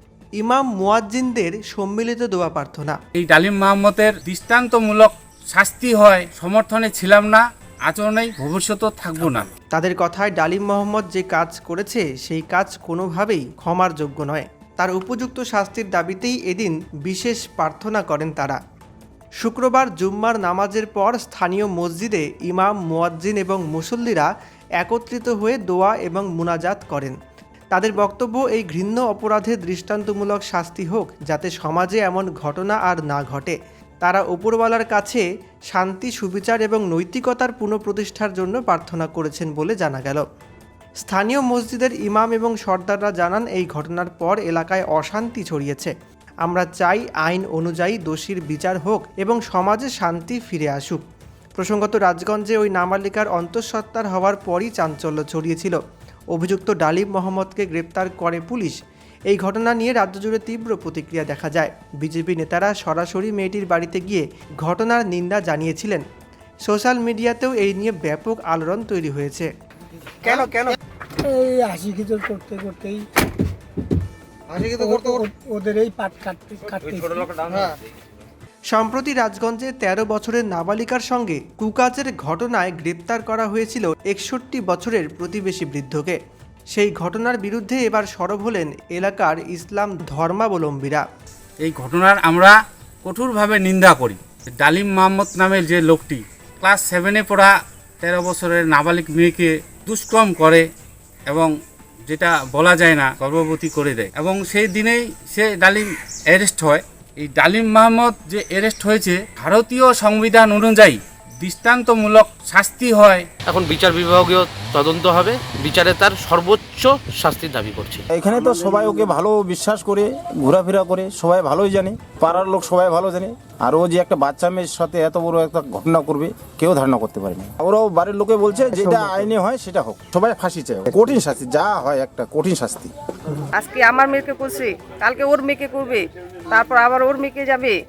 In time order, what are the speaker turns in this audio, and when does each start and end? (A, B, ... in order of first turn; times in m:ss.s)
0:00.4-0:03.0 A
0:03.2-0:09.5 B
0:09.7-0:18.6 A
0:19.4-0:24.3 A
0:24.8-0:27.2 A
0:27.7-0:40.2 A
0:41.0-0:45.9 A
0:46.4-0:51.0 A
0:51.6-0:55.8 A
0:56.3-0:58.8 A
0:59.3-1:06.0 A
1:06.7-1:09.5 A
1:11.2-1:13.1 C
1:14.6-1:17.7 C
1:18.7-1:26.2 A
1:26.7-1:31.0 A
1:31.6-1:40.7 B
1:42.1-1:53.3 B
1:53.5-1:58.0 D
1:58.1-2:13.4 E
2:13.6-2:17.8 F